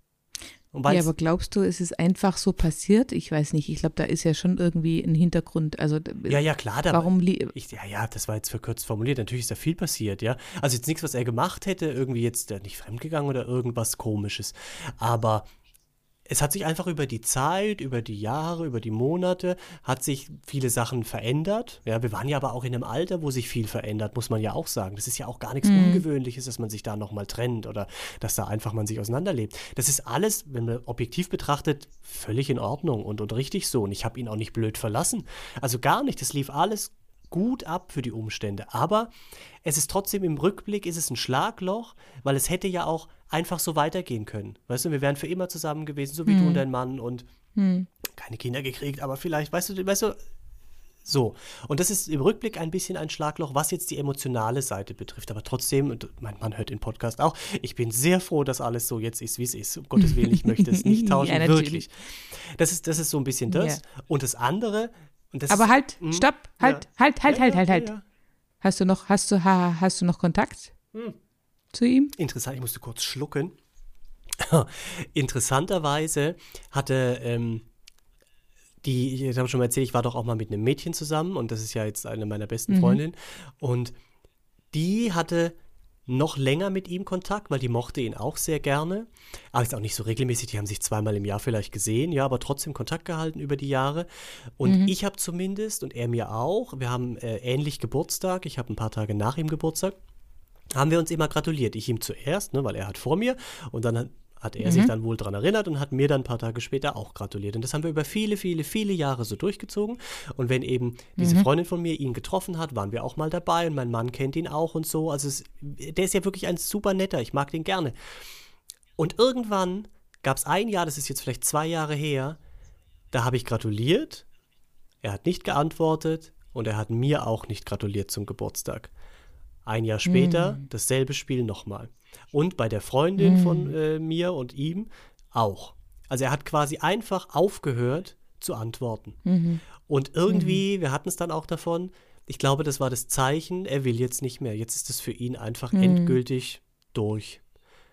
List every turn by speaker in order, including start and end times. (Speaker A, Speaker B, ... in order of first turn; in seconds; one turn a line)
Speaker A: 0.7-1.1
Speaker B: 0.9-6.4
Speaker A: 6.3-15.4
Speaker B: 6.9-7.5
Speaker A: 16.3-47.2
Speaker B: 25.6-26.0
Speaker B: 46.2-46.6
Speaker B: 47.5-47.9
Speaker A: 48.0-50.2
Speaker A: 51.0-68.0
Speaker B: 60.0-61.8
Speaker B: 63.5-63.8
Speaker B: 65.5-67.9
Speaker B: 68.6-70.7
Speaker B: 71.7-72.1
Speaker A: 72.2-73.5
Speaker A: 74.4-77.7
Speaker A: 78.8-83.9
Speaker B: 82.7-83.0
Speaker A: 84.7-100.0
Speaker B: 94.6-94.9
Speaker A: 100.7-117.9
Speaker B: 104.6-104.9
Speaker B: 111.2-111.5
Speaker A: 119.0-122.4
Speaker A: 123.1-124.2
Speaker A: 125.0-128.9
Speaker A: 129.6-139.2
Speaker B: 130.0-130.6
Speaker B: 133.2-133.7
Speaker B: 139.2-139.6
Speaker A: 139.8-147.4
Speaker B: 140.3-140.6
Speaker B: 145.7-146.2